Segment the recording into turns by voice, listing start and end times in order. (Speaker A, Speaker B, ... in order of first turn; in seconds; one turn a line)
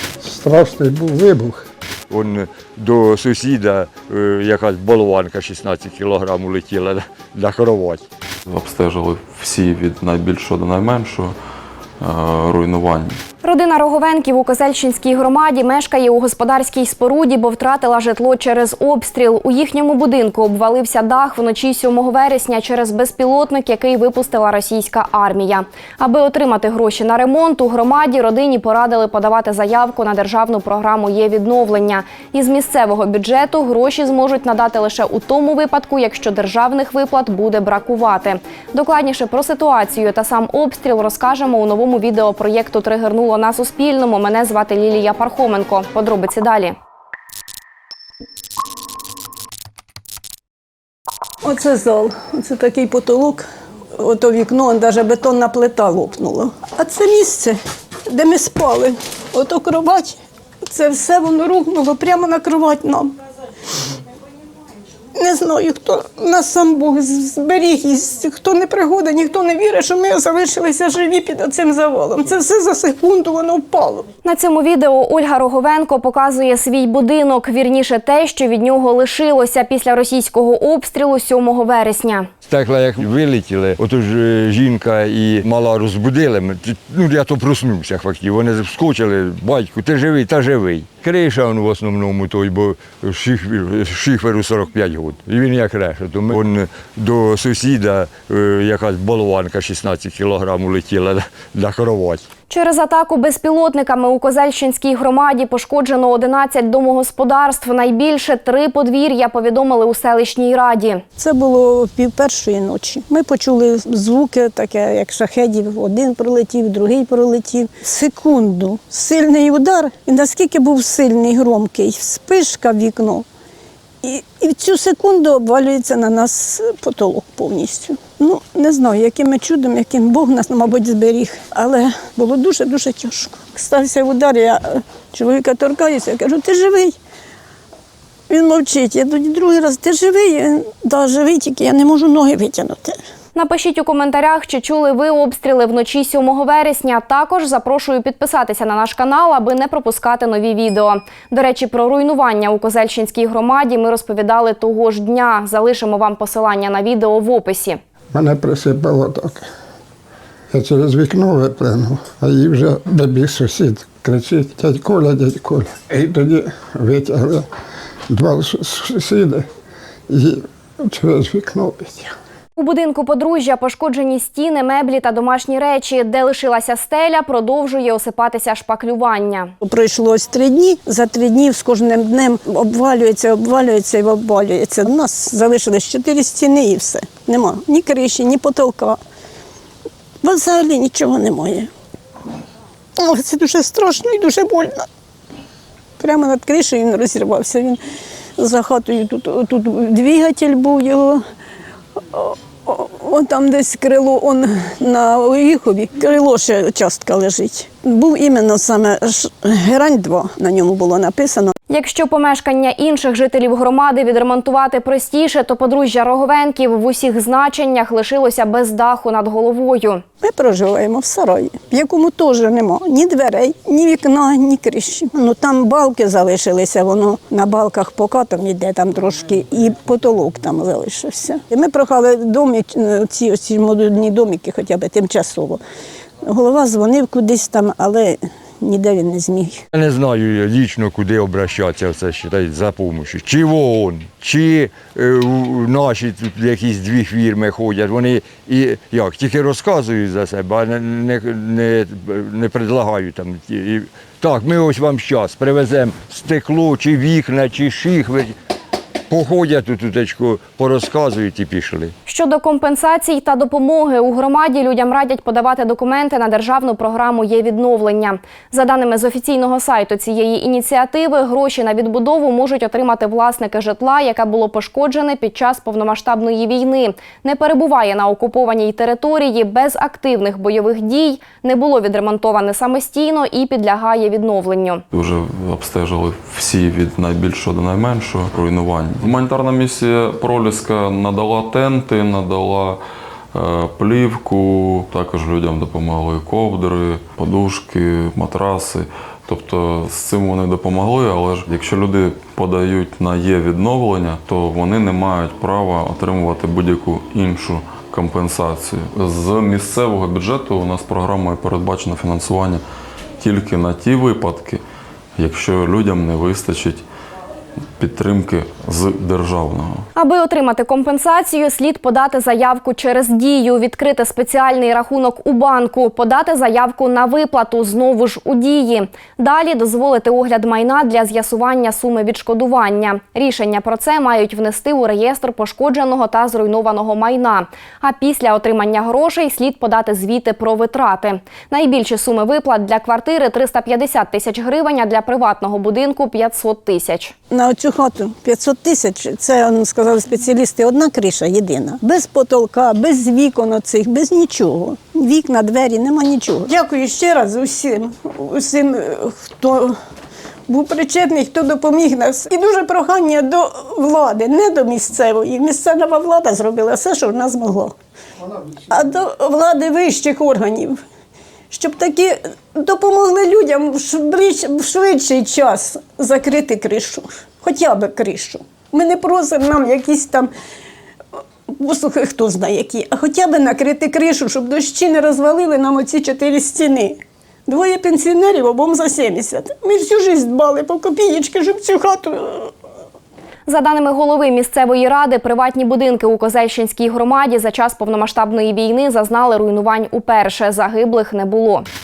Speaker A: 0.2-1.6
Speaker B: 2.1-8.0
Speaker C: 8.5-11.3
Speaker C: 12.0-13.2
Speaker D: 13.4-46.7
Speaker E: 51.4-53.4
Speaker E: 54.0-57.6
Speaker E: 58.1-63.1
Speaker E: 65.2-74.0
Speaker D: 74.2-82.3
Speaker B: 82.4-102.2
Speaker D: 102.5-111.0
Speaker E: 111.2-123.2
Speaker E: 124.0-136.9
Speaker E: 138.3-142.9
Speaker D: 143.3-157.8
Speaker A: 158.1-159.4
Speaker A: 160.5-167.5
Speaker A: 168.1-169.5
Speaker A: 170.1-172.1
Speaker D: 172.6-179.5
Speaker E: 179.6-189.0
Speaker E: 190.2-191.7
Speaker E: 193.0-194.8
Speaker E: 196.0-197.8
Speaker E: 198.4-201.2
Speaker E: 202.1-211.5
Speaker D: 211.7-220.0
Speaker E: 220.2-235.6
Speaker E: 236.2-239.6
Speaker B: 239.7-258.4
Speaker B: 259.1-261.9
Speaker D: 262.1-284.8
Speaker C: 284.9-292.8
Speaker C: 293.3-312.6
Speaker C: 313.2-314.6
Speaker C: 315.2-316.8
Speaker C: 317.8-319.8
Speaker D: 319.9-347.1
Speaker E: 347.3-359.8
Speaker E: 360.5-367.7
Speaker E: 368.7-370.8
Speaker E: 371.5-380.3
Speaker E: 381.5-392.5
Speaker D: 393.5-401.6